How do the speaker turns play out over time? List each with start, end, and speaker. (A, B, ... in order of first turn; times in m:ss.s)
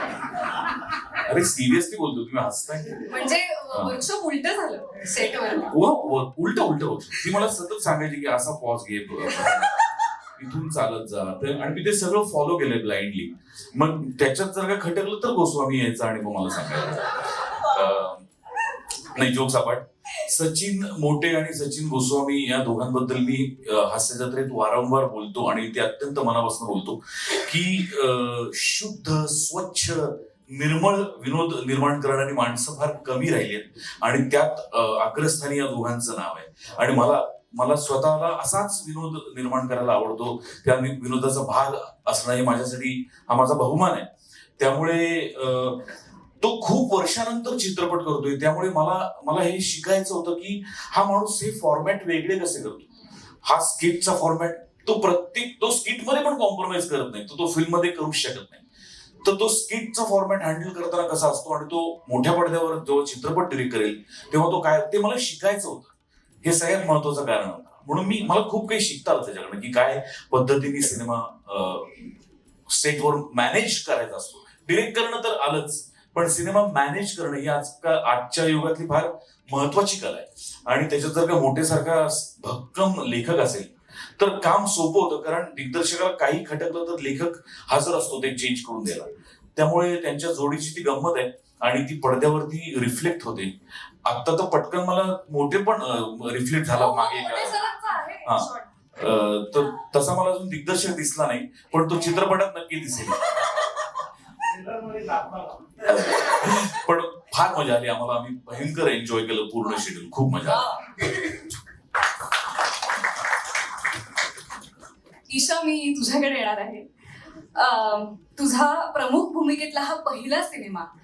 0:01.2-0:03.1 A
0:03.1-0:05.7 B
0:05.7-0:09.8 A
0:10.4-0:18.2 A
0:19.1-0:44.1 A
0:44.6-0:45.9 A
0:46.4-0:52.8 A
0:53.4-0:58.6 A
0:59.2-1:12.1 A
1:12.7-1:33.5 A
1:34.0-1:37.6 A
1:36.7-1:38.7 B
1:38.2-1:43.4 A
1:45.8-1:50.8 A
1:55.3-1:56.8 B
1:57.6-2:00.9 B